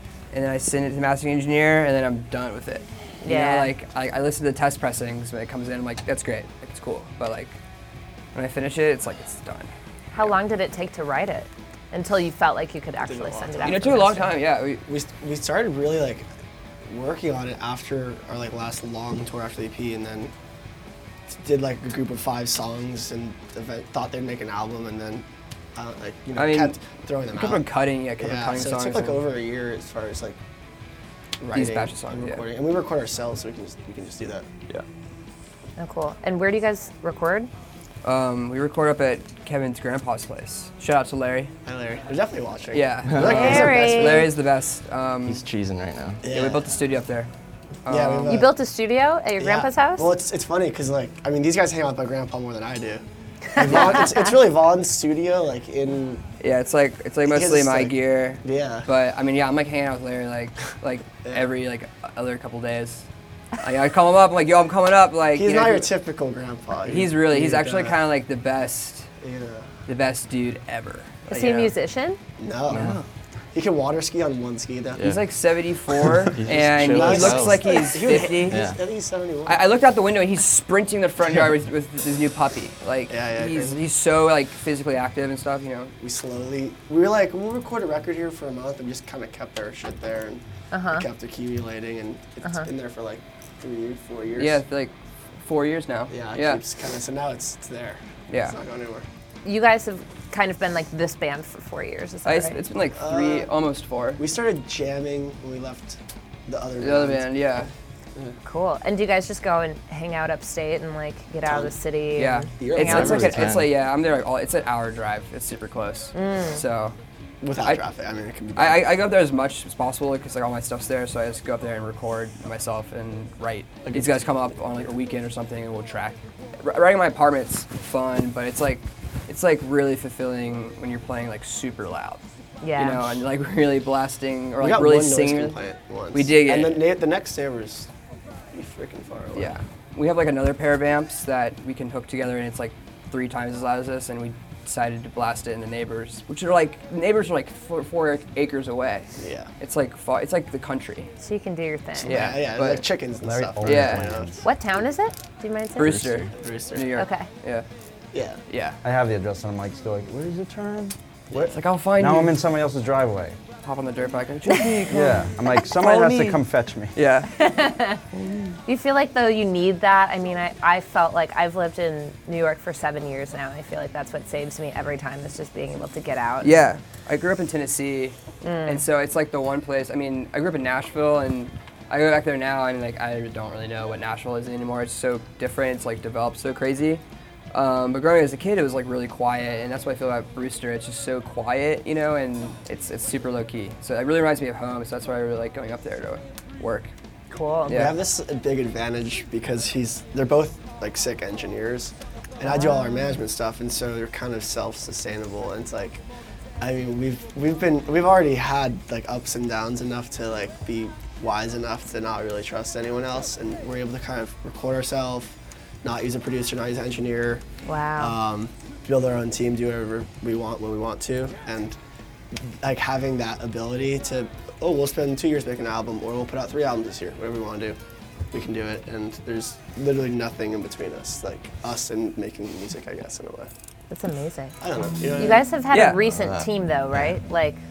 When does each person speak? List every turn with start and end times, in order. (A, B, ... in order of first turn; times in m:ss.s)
0:00.3-0:07.6 A
0:03.2-0:03.7 B
0:08.3-0:09.7 A
0:10.1-0:14.3 B
0:13.0-0:14.2 C
0:13.6-0:14.8 A
0:14.8-0:16.3 C
0:16.9-0:20.3 C
0:21.3-0:25.2 C
0:25.8-0:27.7 C
0:26.4-0:26.8 A
0:27.3-0:29.2 A
0:28.2-0:30.4 C
0:31.4-0:34.5 C
0:31.5-0:32.4 A
0:35.8-0:37.5 B
0:38.0-0:41.5 A
0:41.6-0:44.3 C
0:42.7-0:45.4 A
0:43.0-0:43.6 D
0:43.2-0:44.3 B
0:45.2-0:46.2 D
0:46.2-0:46.6 C
0:46.3-0:47.3 A
0:47.8-0:48.3 A
0:47.9-0:48.5 C
0:48.3-0:50.1 B
0:49.4-0:56.2 C
0:53.5-0:54.2 B
0:56.4-1:03.1 A
0:57.3-0:57.9 C
0:58.4-0:58.9 C
1:01.2-1:01.5 C
1:03.6-1:05.9 A
1:05.3-1:08.0 C
1:06.8-1:09.1 A
1:09.2-1:09.7 C
1:09.9-1:11.2 A
1:11.3-1:12.2 B
1:11.3-1:11.7 C
1:12.4-1:12.9 C
1:12.7-1:13.0 A
1:12.7-1:13.0 D
1:13.5-1:15.0 C
1:14.9-1:15.2 D
1:15.0-1:18.6 A
1:16.3-1:17.8 D
1:16.5-1:19.6 C
1:18.4-1:18.8 D
1:19.4-1:25.9 A
1:23.1-1:23.8 C
1:26.0-1:34.6 C
1:30.7-1:31.0 B
1:34.4-1:36.6 A
1:36.1-1:39.0 C
1:38.3-1:38.6 A
1:39.4-1:42.6 B
1:42.2-1:44.2 A
1:42.9-1:43.5 C
1:44.2-1:47.4 C
1:46.8-1:47.7 A
1:48.4-1:53.1 B
1:52.2-1:56.9 A
1:52.6-1:53.5 C
1:52.8-1:53.7 D
1:56.1-1:56.6 B
1:57.4-1:58.9 C
1:58.5-2:12.2 A
2:03.8-2:04.9 C
2:12.6-2:13.1 B
2:12.8-2:15.6 A
2:14.6-2:17.9 C
2:16.1-2:16.8 A
2:18.5-2:19.6 C
2:19.3-2:31.1 A
2:29.2-2:29.5 C
2:31.2-2:32.3 B
2:32.0-2:34.3 C
2:32.1-2:32.8 A
2:33.2-2:34.4 E
2:33.6-2:34.1 A
2:34.4-2:36.0 B
2:35.8-2:37.6 A
2:35.8-2:36.3 D
2:36.4-2:37.0 C
2:37.0-2:37.3 B
2:38.1-2:38.4 C
2:38.5-2:38.8 A
2:38.8-2:40.9 E
2:41.3-2:42.4 A
2:42.0-2:43.4 E
2:43.6-2:47.3 A
2:44.9-2:46.9 E
2:47.3-2:48.0 B
2:48.1-2:48.6 A
2:48.6-2:56.6 B
2:56.4-2:58.2 A
2:58.4-2:58.8 B
2:58.7-3:07.0 A
3:07.5-3:16.9 A
3:17.3-3:17.9 B
3:17.7-3:17.9 A
3:17.7-3:26.0 C
3:22.4-3:23.2 B
3:26.6-3:37.4 C
3:37.6-3:38.2 B
3:38.0-3:41.8 C
3:42.3-3:47.8 C
3:48.3-3:53.5 C
3:53.9-3:54.6 B
3:54.6-3:55.5 C
3:55.2-3:57.6 B
3:55.7-3:56.0 A
3:56.1-3:56.5 D